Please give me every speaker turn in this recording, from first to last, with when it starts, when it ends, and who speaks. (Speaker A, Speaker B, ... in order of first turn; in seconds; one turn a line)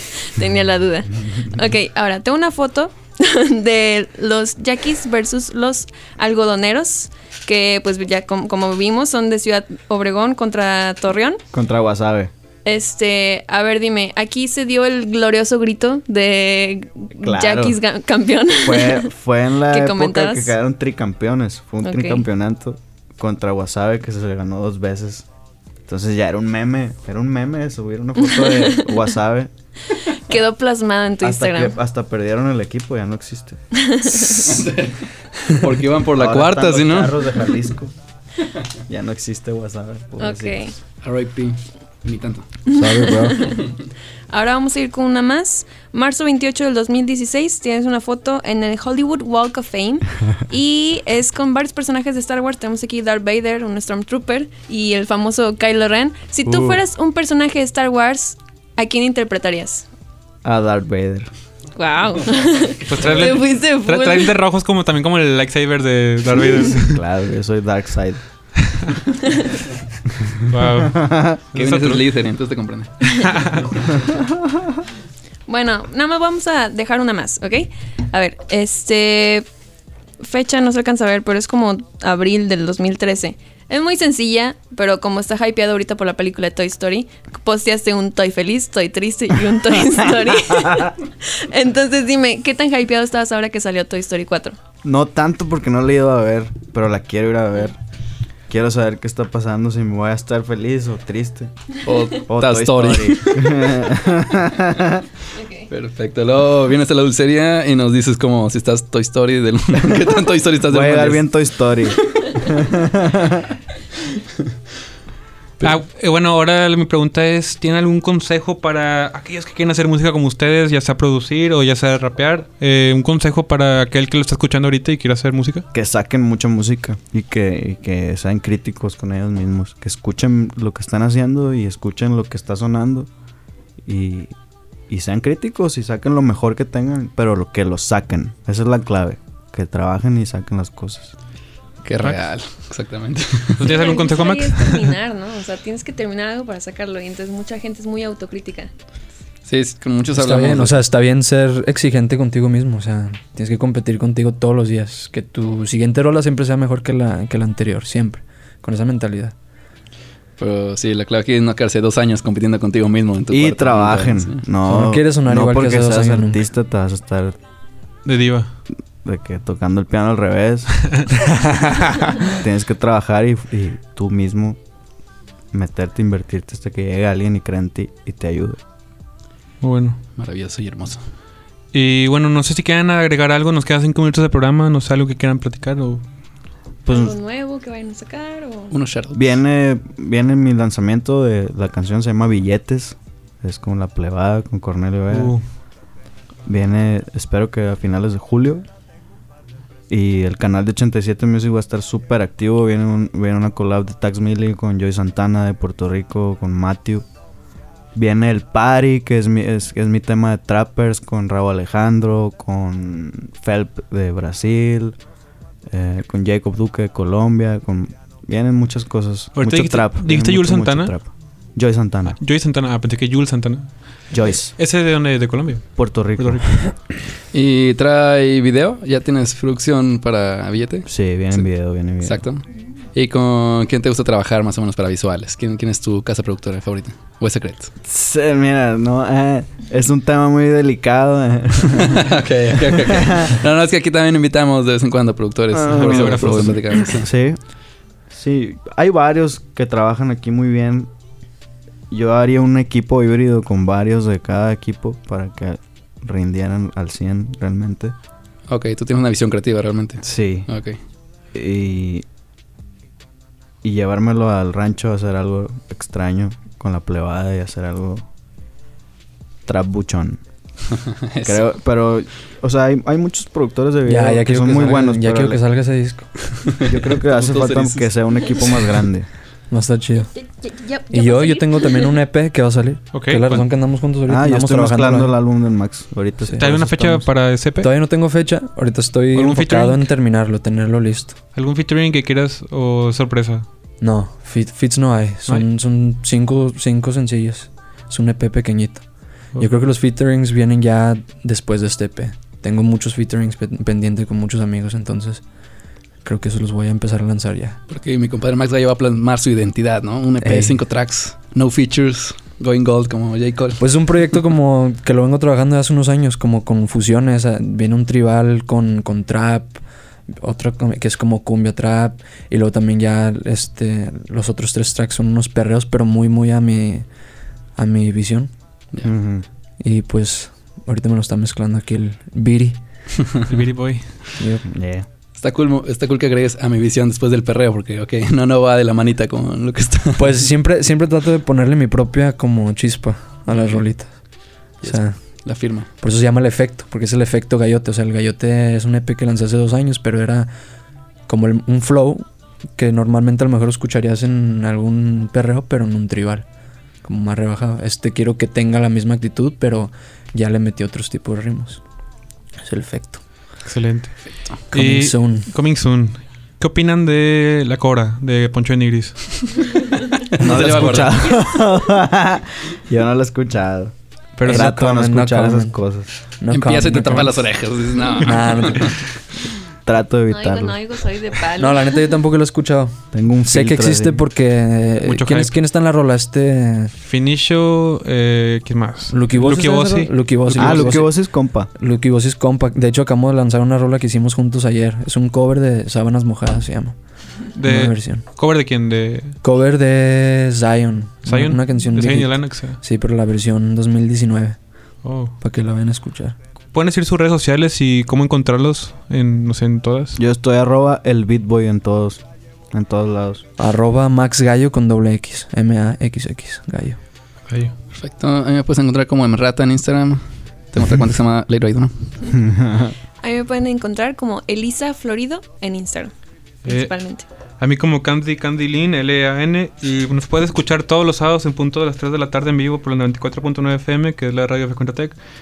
Speaker A: 0.1-11.4
Speaker B: 11.5-12.3
Speaker A: 12.7-19.1
Speaker B: 17.2-17.8
Speaker B: 18.6-25.3
Speaker A: 19.7-20.5
Speaker A: 21.8-22.2
Speaker B: 25.9-29.5
Speaker A: 28.3-29.0
Speaker A: 30.0-31.7
Speaker B: 31.2-33.6
Speaker A: 33.8-34.6
Speaker C: 34.4-37.6
Speaker B: 36.1-37.9
Speaker B: 38.9-40.7
Speaker A: 40.2-40.7
Speaker C: 41.0-42.5
Speaker B: 42.7-43.6
Speaker A: 42.7-43.6
Speaker A: 44.3-59.9
Speaker B: 56.5-56.8
Speaker B: 60.4-61.3
Speaker A: 61.8-64.3
Speaker D: 62.9-67.0
Speaker B: 66.7-68.2
Speaker D: 70.5-72.1
Speaker B: 70.9-71.4
Speaker C: 71.5-72.9
Speaker D: 73.1-73.7
Speaker A: 75.5-79.5
Speaker A: 80.2-94.6
Speaker B: 90.5-90.9
Speaker B: 94.8-97.8
Speaker B: 98.5-101.5
Speaker C: 101.8-103.9
Speaker B: 102.2-105.0
Speaker A: 105.3-105.7
Speaker C: 105.7-111.3
Speaker B: 110.6-113.5
Speaker D: 115.6-125.7
Speaker B: 125.7-133.1
Speaker B: 133.8-134.3
Speaker B: 134.9-141.1
Speaker C: 141.8-143.7
Speaker D: 143.6-145.0
Speaker A: 143.6-148.7
Speaker C: 149.4-150.8
Speaker E: 150.1-159.3
Speaker C: 160.4-164.4
Speaker B: 163.3-167.4
Speaker E: 164.7-166.4
Speaker D: 168.1-168.5
Speaker B: 169.0-171.0
Speaker B: 172.3-174.6
Speaker B: 175.5-178.6
Speaker D: 179.6-180.0
Speaker C: 180.2-181.0
Speaker D: 181.7-186.0
Speaker B: 186.9-187.2
Speaker A: 186.9-188.7
Speaker C: 188.7-189.2
Speaker B: 189.1-195.4
Speaker D: 195.1-195.4
Speaker B: 196.5-198.7
Speaker B: 199.9-207.1
Speaker B: 207.9-215.0
Speaker B: 215.7-222.2
Speaker D: 219.4-220.9
Speaker D: 222.2-226.7
Speaker B: 224.1-224.5
Speaker B: 225.8-226.6
Speaker C: 227.3-231.4
Speaker B: 230.9-232.2
Speaker C: 232.0-237.7
Speaker B: 237.8-242.0
Speaker C: 241.8-247.1
Speaker B: 242.7-243.3
Speaker B: 245.5-247.4
Speaker D: 245.7-246.7
Speaker B: 248.1-250.9
Speaker B: 251.9-257.9
Speaker C: 258.5-260.8
Speaker B: 260.0-260.5
Speaker B: 261.3-262.1
Speaker B: 263.6-268.0
Speaker B: 269.5-270.2
Speaker C: 271.1-271.4
Speaker B: 271.2-275.4
Speaker E: 273.9-276.1
Speaker C: 276.5-278.0
Speaker B: 276.6-279.1
Speaker E: 279.5-280.1
Speaker A: 280.1-281.9
Speaker E: 280.9-285.1
Speaker D: 282.9-283.4
Speaker B: 284.1-286.6
Speaker E: 286.2-291.2
Speaker D: 286.4-287.7
Speaker D: 289.1-289.9
Speaker D: 291.4-293.5
Speaker E: 293.8-305.2
Speaker E: 306.0-307.6
Speaker C: 307.7-313.6
Speaker E: 310.2-310.6
Speaker E: 313.6-326.9
Speaker E: 327.6-328.3
Speaker B: 328.8-329.3
Speaker E: 329.6-332.6
Speaker D: 333.2-334.0
Speaker E: 334.2-334.4
Speaker B: 334.5-334.9
Speaker C: 335.1-340.1
Speaker E: 340.0-350.3
Speaker C: 344.6-345.7
Speaker E: 351.1-356.3
Speaker E: 356.8-361.6
Speaker E: 362.4-363.0
Speaker D: 363.4-369.7
Speaker C: 364.1-364.4
Speaker E: 364.5-365.3
Speaker C: 370.1-371.1
Speaker B: 370.2-375.9
Speaker D: 374.2-374.5
Speaker E: 374.2-375.6
Speaker E: 376.2-377.4
Speaker C: 376.3-378.7
Speaker D: 376.7-377.1
Speaker E: 378.0-378.7
Speaker B: 379.7-380.6
Speaker A: 380.1-382.0
Speaker E: 381.4-386.7
Speaker B: 382.9-384.1
Speaker D: 384.8-385.3
Speaker D: 386.8-390.9
Speaker E: 388.9-391.0
Speaker B: 390.4-391.5
Speaker E: 391.6-396.8
Speaker D: 397.4-399.2
Speaker E: 397.4-398.0
Speaker E: 399.2-404.4
Speaker D: 401.1-402.6
Speaker D: 404.8-405.1
Speaker E: 405.2-406.2
Speaker D: 406.5-410.0
Speaker B: 410.0-413.2
Speaker E: 413.4-416.8
Speaker D: 417.3-417.6
Speaker C: 417.7-421.7
Speaker B: 422.1-422.7
Speaker A: 423.0-425.9
Speaker D: 426.4-426.7
Speaker A: 426.4-427.1
Speaker D: 427.4-435.0